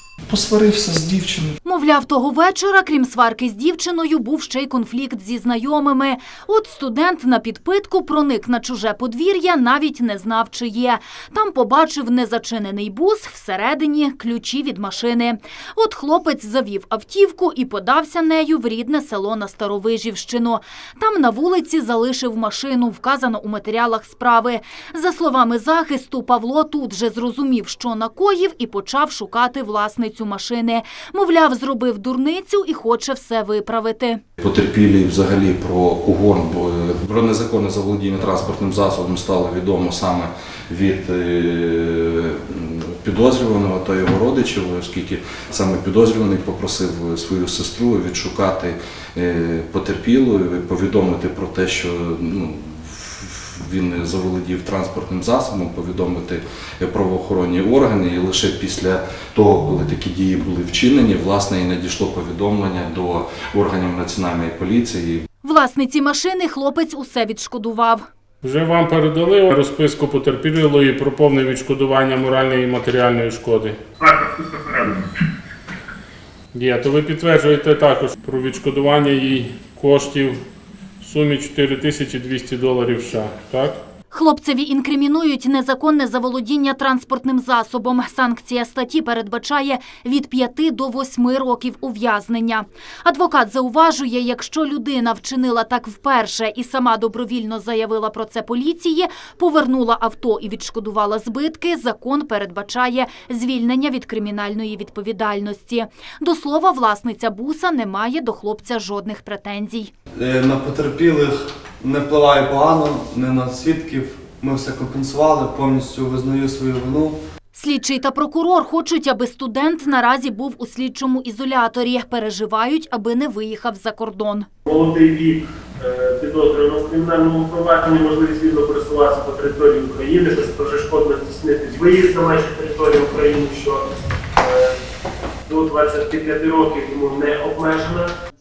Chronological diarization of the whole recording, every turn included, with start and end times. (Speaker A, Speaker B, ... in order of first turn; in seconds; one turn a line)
Speaker A: 0.3-1.5
Speaker B: 1.6-34.2
Speaker A: 34.4-65.3
Speaker B: 65.4-68.1
Speaker C: 68.4-73.8
Speaker D: 74.0-75.0
Speaker C: 76.5-80.4
Speaker C: 81.0-83.8
Speaker B: 84.1-109.9
Speaker E: 110.2-117.2
Speaker B: 117.5-124.5
Speaker D: 124.7-133.8
Speaker D: 134.3-134.7
Speaker D: 135.5-138.1